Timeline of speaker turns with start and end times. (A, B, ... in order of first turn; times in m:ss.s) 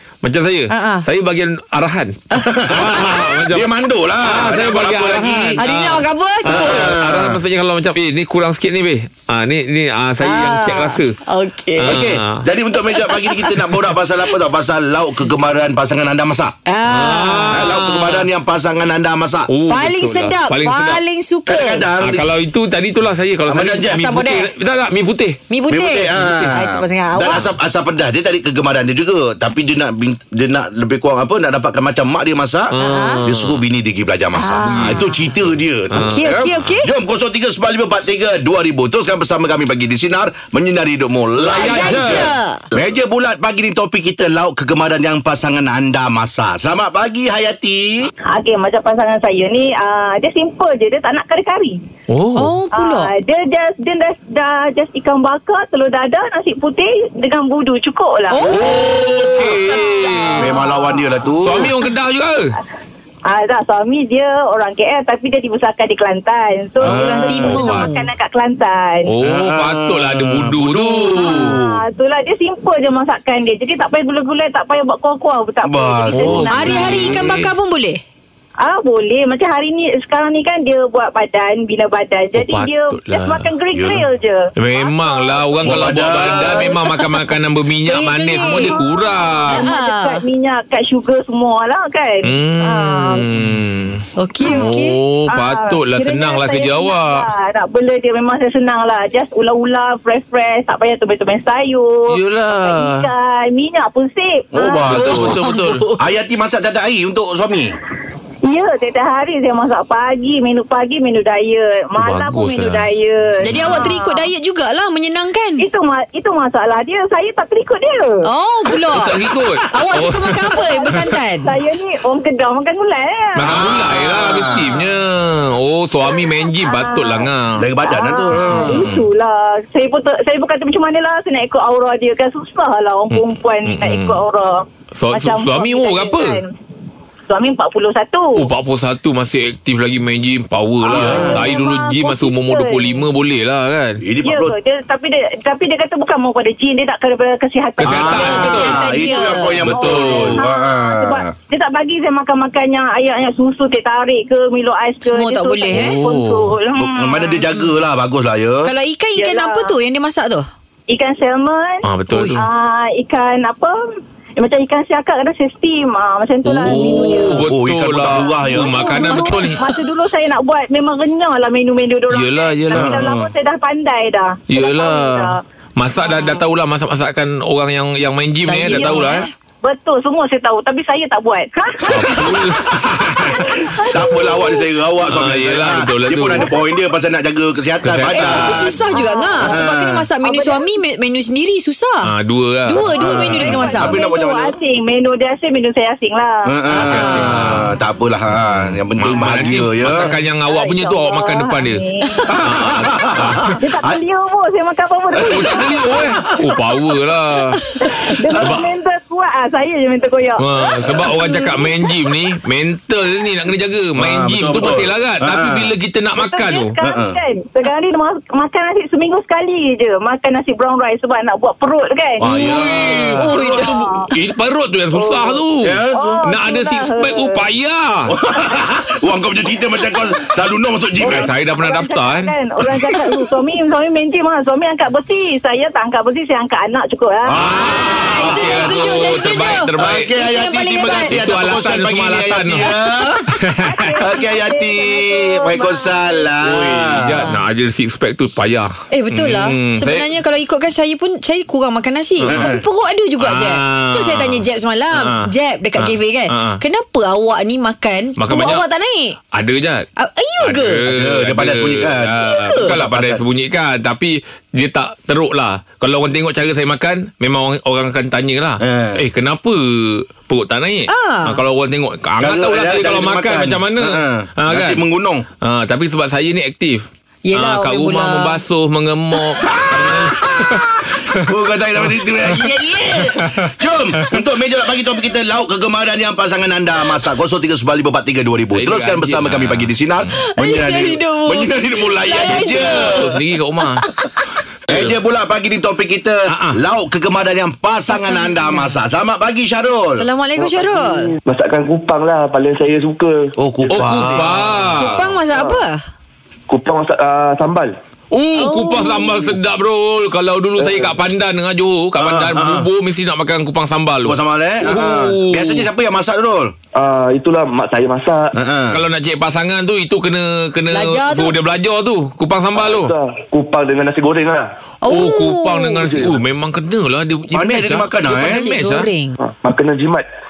0:00.2-0:02.2 A
0:00.7-0:01.0 B
0:02.3-0:03.2 B
0:02.4-0:05.6 C
0:02.7-0:03.7 A
0:04.2-0:11.2 A
0:05.5-0:07.0 B
0:06.4-0:07.4 C
0:10.2-0:12.0 B
0:11.8-0:12.4 A
0:11.8-0:16.5 C
0:12.8-0:13.6 B
0:16.6-0:17.6 B
0:16.9-0:18.3 A
0:17.5-0:19.5 C
0:19.5-0:21.0 A
0:19.7-0:21.9 B
0:21.5-0:22.3 C
0:22.0-0:25.4 A
0:23.5-0:24.0 C
0:23.9-0:24.5 B
0:25.5-0:27.5 B
0:25.7-0:32.7 C
0:32.7-0:33.6 A
0:32.8-0:33.2 B
0:33.2-0:48.1 C
0:34.4-0:35.4 B
0:34.6-0:35.0 A
0:35.9-0:36.7 A
0:35.9-0:36.9 B
0:41.4-0:42.3 A
0:41.5-0:42.6 B
0:48.3-0:51.8 D
0:52.1-0:52.5 A
0:52.4-0:53.1 B
0:52.7-0:59.0 D
0:58.3-1:00.6 B
0:58.5-1:00.6 A
1:00.3-1:01.0 D
1:00.4-1:01.7 C
1:01.4-1:02.5 A
1:03.3-1:09.1 D
1:06.8-1:07.9 C
1:06.8-1:08.1 B
1:09.0-1:11.4 A
1:09.3-1:11.8 C
1:11.1-1:17.3 D
1:15.6-1:17.2 C
1:16.1-1:17.5 A
1:16.4-1:18.0 B
1:18.6-1:27.0 D
1:22.3-1:23.5 A
1:23.7-1:24.1 C
1:24.6-1:29.6 A
1:25.6-1:26.7 C
1:27.8-1:28.8 B
1:28.2-1:33.2 D
1:29.5-1:30.2 B
1:32.2-1:37.3 A
1:34.2-1:35.0 B
1:34.4-1:45.0 D
1:42.1-1:43.1 A
1:44.5-1:45.4 C
1:44.9-1:45.8 A
1:45.0-1:46.0 B
1:46.0-1:47.8 C
1:48.5-1:54.3 D
1:52.0-1:53.9 A
1:53.4-1:55.6 B
1:55.6-1:58.1 D
1:58.2-1:59.2 B
1:58.9-2:00.4 A
1:59.7-2:01.5 B
2:00.6-2:04.8 D
2:03.3-2:07.7 A
2:03.5-2:04.8 C
2:06.0-2:07.3 D
2:07.6-2:08.9 C
2:07.8-2:16.5 D
2:08.3-2:09.0 A
2:13.1-2:14.2 A
2:14.9-2:16.4 A
2:17.3-2:18.4 D
2:18.3-2:24.0 A
2:20.8-2:23.0 D
2:20.9-2:21.5 C
2:24.0-2:24.5 C
2:24.2-2:37.4 D
2:27.8-2:28.8 A
2:27.8-2:31.3 C
2:28.1-2:29.6 B
2:29.6-2:30.4 A
2:35.0-2:36.0 B
2:35.7-2:36.5 A
2:36.8-2:38.6 C
2:38.6-2:40.5 B
2:39.2-2:39.7 D
2:40.9-2:43.7 D
2:41.8-2:42.4 A
2:42.1-2:42.4 B
2:44.4-2:47.5 D
2:46.4-2:49.6 A
2:46.6-2:48.8 C
2:48.1-2:55.4 D
2:48.6-2:49.4 B
2:52.1-2:53.0 A
2:52.7-2:53.3 C
2:54.5-2:59.2 A
2:56.0-2:56.3 D
2:58.4-2:59.3 B
2:58.6-3:02.4 D
3:01.8-3:03.0 A
3:02.0-3:08.8 C
3:03.1-3:04.6 D
3:05.1-3:06.5 A
3:06.4-3:06.8 D
3:07.8-3:08.8 A
3:08.1-3:12.1 B
3:08.9-3:09.6 D
3:09.4-3:10.1 C
3:10.2-3:10.6 D
3:12.0-3:13.4 A
3:12.6-3:14.0 B
3:12.9-3:14.5 C
3:13.4-3:16.8 D
3:16.4-3:20.1 C
3:16.7-3:17.7 A
3:16.8-3:17.5 B
3:18.3-3:21.8 A
3:20.4-3:22.3 D
3:22.3-3:23.3 C
3:22.4-3:23.6 A
3:23.6-3:26.2 D
3:25.2-3:26.2 C
3:25.2-3:27.6 A
3:27.8-3:31.9 D
3:28.4-3:28.7 A
3:30.4-3:36.8 A
3:30.8-3:31.0 C
3:34.0-3:35.7 C
3:36.1-3:44.0 D
3:36.8-3:37.2 C
3:42.2-3:43.2 C
3:42.3-3:44.0 B
3:42.5-3:48.1 A
3:44.9-3:45.4 D
3:45.6-3:46.2 C
3:45.9-3:47.4 D
3:48.1-3:51.3 C
3:51.0-3:58.2 D
3:51.1-3:52.3 A
3:52.7-3:53.2 C
3:57.2-3:59.0 C
3:57.3-4:00.1 A
3:57.5-4:01.2 B
3:59.8-4:03.2 C
4:01.0-4:02.7 A
4:03.4-4:03.8 A
4:03.6-4:06.3 D
4:04.0-4:07.3 C
4:06.4-4:10.1 A
4:08.9-4:19.2 B
4:12.2-4:12.4 A
4:12.3-4:12.6 C
4:13.2-4:15.3 A
4:15.8-4:16.6 A
4:18.2-4:18.6 A
4:19.3-4:19.8 A
4:20.0-4:20.8 B
4:20.4-4:34.8 A
4:20.9-4:23.2 C
4:22.2-4:22.7 B
4:28.6-4:29.0 C
4:30.9-4:31.4 B
4:32.2-4:35.2 C
4:35.4-4:36.8 A
4:37.2-4:38.4 B
4:37.3-4:41.2 A
4:39.4-4:53.1 C
4:43.2-4:43.5 A
4:48.5-4:50.1 A
4:50.1-4:53.1 B
4:52.3-4:53.8 A
4:53.6-4:54.2 B
4:54.7-4:54.9 A
4:54.7-5:00.0 C
4:56.3-4:56.6 A
4:57.9-4:58.8 B
4:59.9-5:01.2 B
5:00.4-5:04.6 E
5:03.4-5:04.3 C
5:03.7-5:05.0 A
5:04.7-5:05.8 B
5:05.3-5:05.6 E
5:06.5-5:07.8 E
5:08.1-5:15.7 A
5:08.3-5:09.2 B
5:10.6-5:11.0 E
5:12.0-5:12.7 C
5:14.0-5:16.5 C
5:16.7-5:18.3 E
5:18.4-5:18.8 C
5:18.7-5:22.9 A
5:20.7-5:21.4 B
5:22.5-5:24.5 E
5:24.8-5:26.1 B
5:24.8-5:28.9 A
5:25.8-5:26.1 E
5:27.3-5:28.5 C
5:28.1-5:29.1 B
5:29.2-5:30.0 E